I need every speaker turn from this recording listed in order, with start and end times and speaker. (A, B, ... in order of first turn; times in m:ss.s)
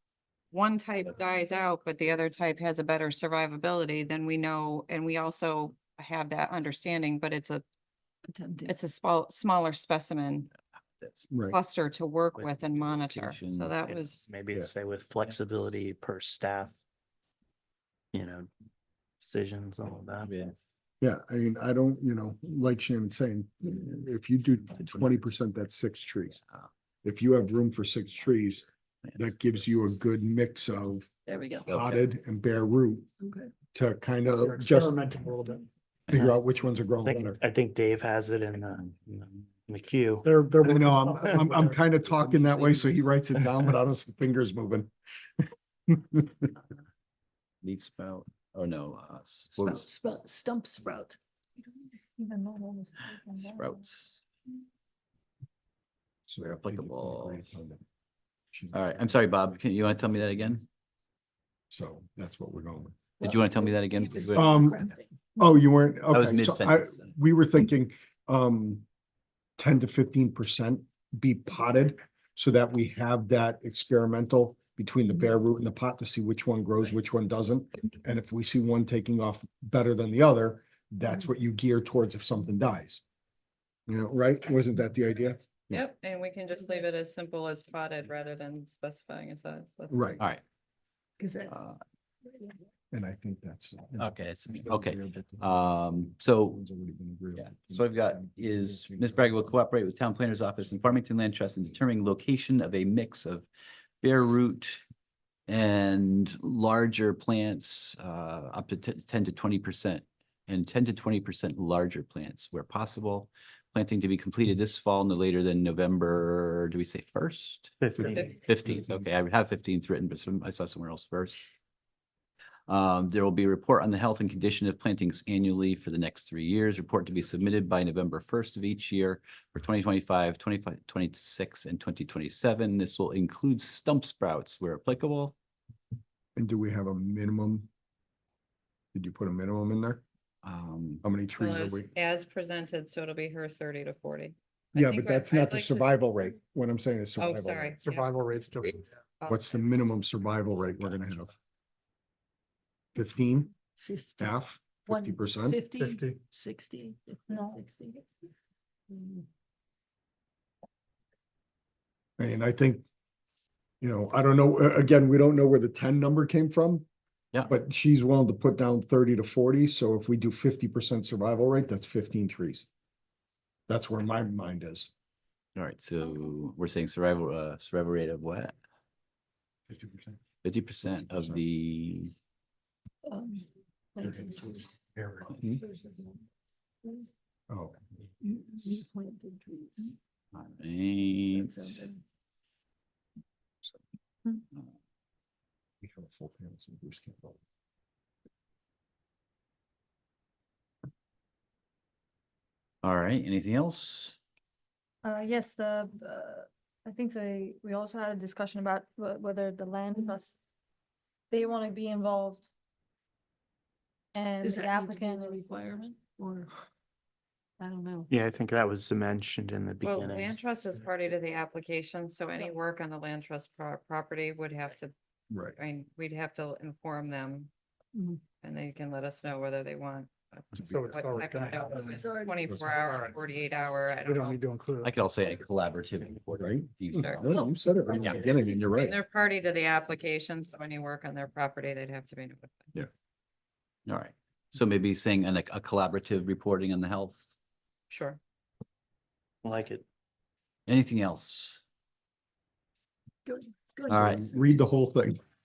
0:00.5-0:07.6 A
0:08.6-0:10.5 A
0:11.0-0:11.3 B
0:11.3-0:11.6 C
0:11.5-0:14.2 A
0:12.4-0:14.0 B
0:14.2-0:16.8 D
0:18.1-0:18.5 D
0:19.2-0:20.4 D
0:20.2-0:20.6 B
0:21.0-0:26.4 C
0:24.9-0:25.3 D
0:27.0-0:31.1 C
0:31.7-0:33.1 C
0:31.7-0:32.0 B
0:33.7-0:35.0 C
0:34.3-0:35.7 E
0:36.1-0:37.4 C
0:36.1-0:36.4 D
0:37.0-0:40.3 D
0:40.2-0:42.0 E
0:40.6-0:46.5 C
0:42.3-0:43.0 D
0:47.6-0:50.0 B
0:49.6-0:51.2 F
0:52.2-0:53.0 F
0:53.3-0:54.2 B
0:56.3-0:57.8 C
0:56.4-0:57.4 B
0:58.5-0:59.6 C
0:58.7-1:00.6 B
1:01.7-1:03.2 C
1:03.2-1:04.7 B
1:04.3-1:08.8 C
1:06.1-1:07.1 B
1:09.6-1:23.0 C
1:23.9-1:25.8 C
1:25.7-1:30.2 A
1:29.9-1:30.2 C
1:31.5-1:31.8 B
1:32.9-1:35.6 C
1:34.0-1:36.6 B
1:36.4-1:39.5 C
1:37.4-1:43.5 B
1:44.0-1:44.8 B
1:45.5-2:01.4 B
1:57.8-1:58.9 D
2:02.7-2:15.3 B
2:16.4-2:17.7 C
2:18.9-2:20.0 C
2:20.4-2:21.0 B
2:21.0-2:21.9 C
2:21.4-2:25.9 A
2:24.8-2:27.8 C
2:27.2-2:28.1 A
2:27.8-2:28.9 E
2:29.2-2:29.6 A
2:29.3-2:31.3 C
2:32.9-2:33.5 C
2:33.8-2:34.2 F
2:34.2-2:35.6 C
2:34.9-2:38.0 F
2:35.8-2:36.2 E
2:37.3-2:37.6 G
2:42.2-2:42.8 C
2:43.8-2:46.9 C
2:47.4-2:52.7 C
2:53.7-2:54.9 C
2:55.6-2:58.5 B
2:59.7-3:00.1 C
3:00.4-3:02.1 B
3:00.9-3:01.4 C
3:03.1-3:03.4 F
3:04.2-3:04.4 F
3:05.1-3:05.6 C
3:05.8-3:06.2 F
3:07.5-3:07.8 C
3:08.5-3:09.8 F
3:10.3-3:11.8 B
3:11.3-3:12.0 F
3:15.8-3:17.4 C
3:22.8-3:24.2 B
3:25.0-3:30.3 G
3:31.3-3:32.5 G
3:34.1-3:35.5 G
3:34.4-3:36.5 F
3:37.7-3:38.1 F
3:38.1-3:40.4 D
3:39.8-3:44.9 A
3:45.3-3:45.6 C
3:45.5-3:47.5 A
3:48.4-3:54.4 A
3:50.6-3:51.9 E
3:52.8-3:53.2 E
3:54.0-3:55.0 E
3:54.8-3:57.2 B
3:56.4-3:59.0 C
3:56.9-3:57.4 A
3:58.0-3:58.4 B
3:58.4-4:02.7 A
4:03.8-4:07.2 B
4:07.9-4:08.2 A
4:09.4-4:09.8 D
4:10.7-4:11.6 B
4:13.3-4:13.8 F
4:13.9-4:14.3 B
4:13.9-4:15.2 C